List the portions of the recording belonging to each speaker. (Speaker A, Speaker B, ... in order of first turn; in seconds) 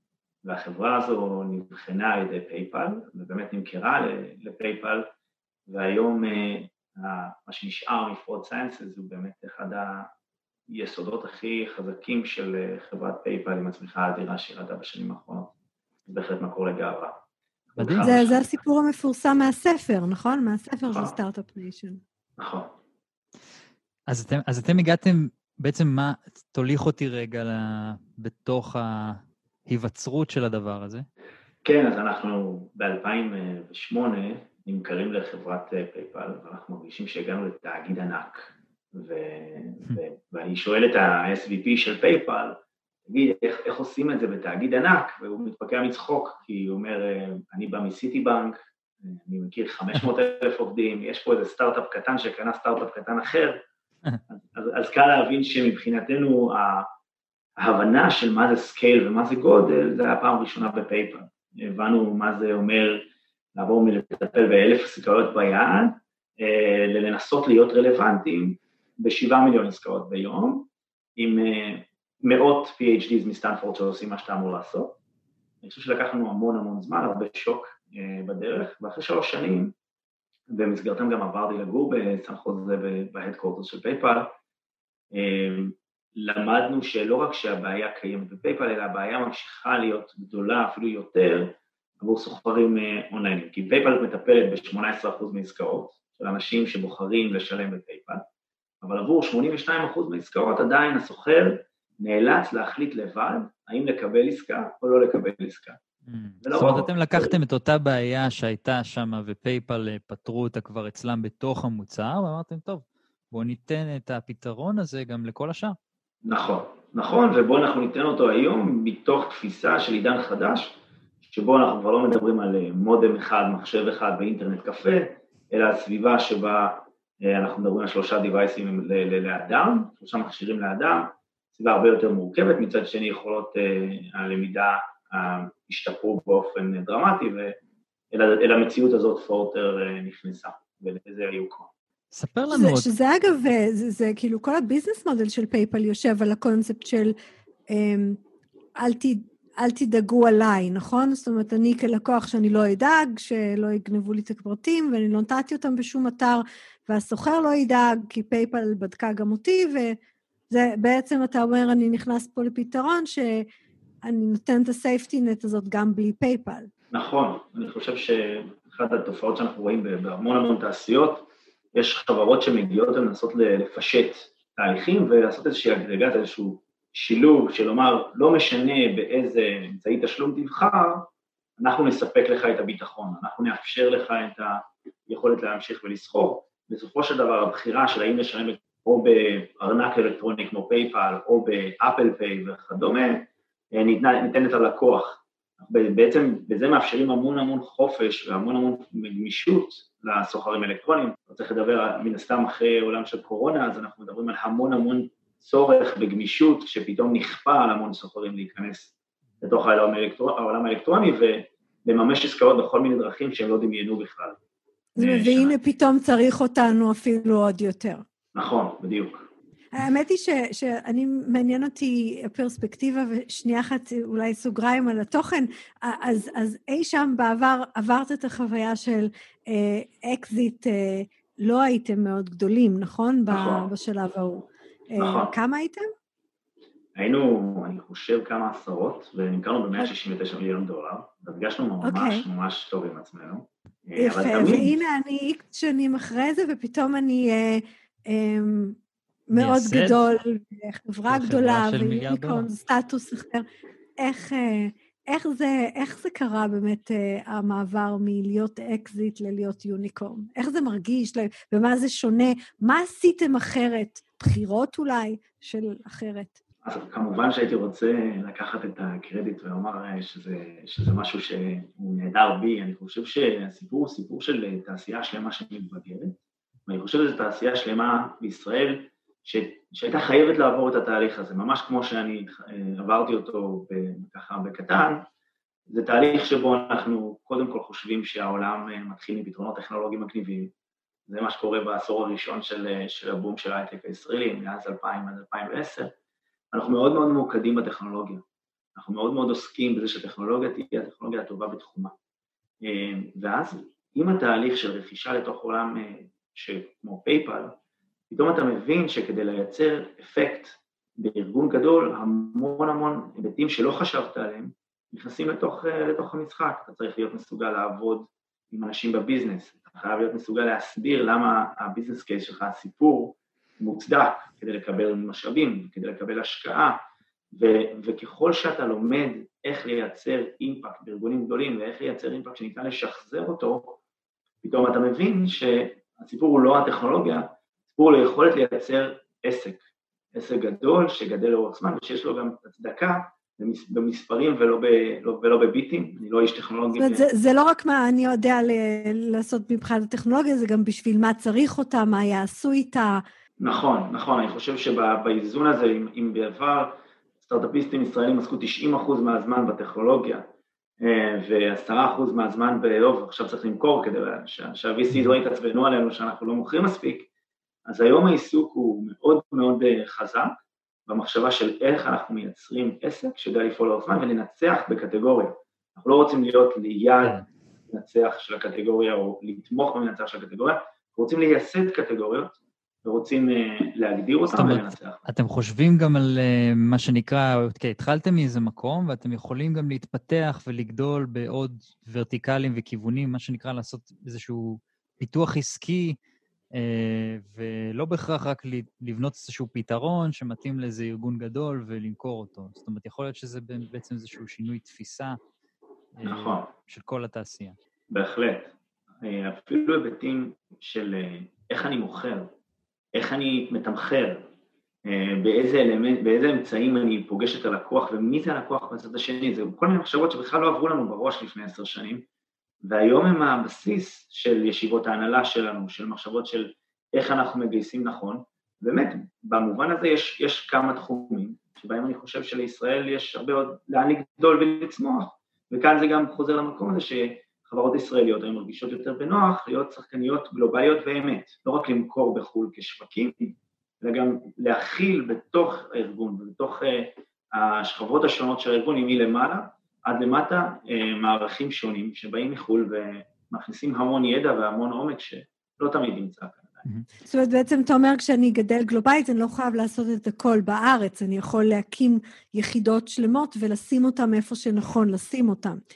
Speaker A: 0.4-5.1, 5.7-10.1, 10.7-15.5, 16.1-17.1, 17.7-18.5, 22.4-22.7, 31.6-53.6, 54.3-56.9, 57.6-75.0, 75.6-79.7, 80.5-84.3, 85.1-98.2, 98.8-105.8, 106.4-107.4, 116.2-137.6, 138.1-141.7, 166.9-181.1, 181.6-214.4, 215.0-215.6, 218.3-219.3, 233.3-233.7, 235.0-235.3, 237.0-244.7, 266.6-276.2, 276.7-285.1, 285.7-290.5, 291.1-295.9, 296.5-298.2, 298.8-301.9, 302.6-307.6, 308.1-326.8, 327.3-333.8, 334.4-339.6, 340.1-347.1, 353.4-360.2, 360.8-367.1, 367.7-377.2, 377.7-385.1, 406.0-406.5, 407.9-412.3, 412.9-414.3, 414.9-422.0, 422.6-456.7
Speaker B: 17.8-18.2, 24.1-31.1, 106.1-115.8, 142.1-142.9, 249.3-250.0, 251.1-252.5, 384.3-396.0, 396.5-405.2, 405.9-407.6
Speaker C: 18.0-22.0, 142.5-147.2, 147.7-148.2, 148.8-160.0, 160.5-163.5, 164.0-166.7, 215.0-218.0, 219.7-235.9, 241.8-242.2, 244.0-248.8, 249.3-253.4, 254.0-266.4, 346.8-353.0, 457.1-465.6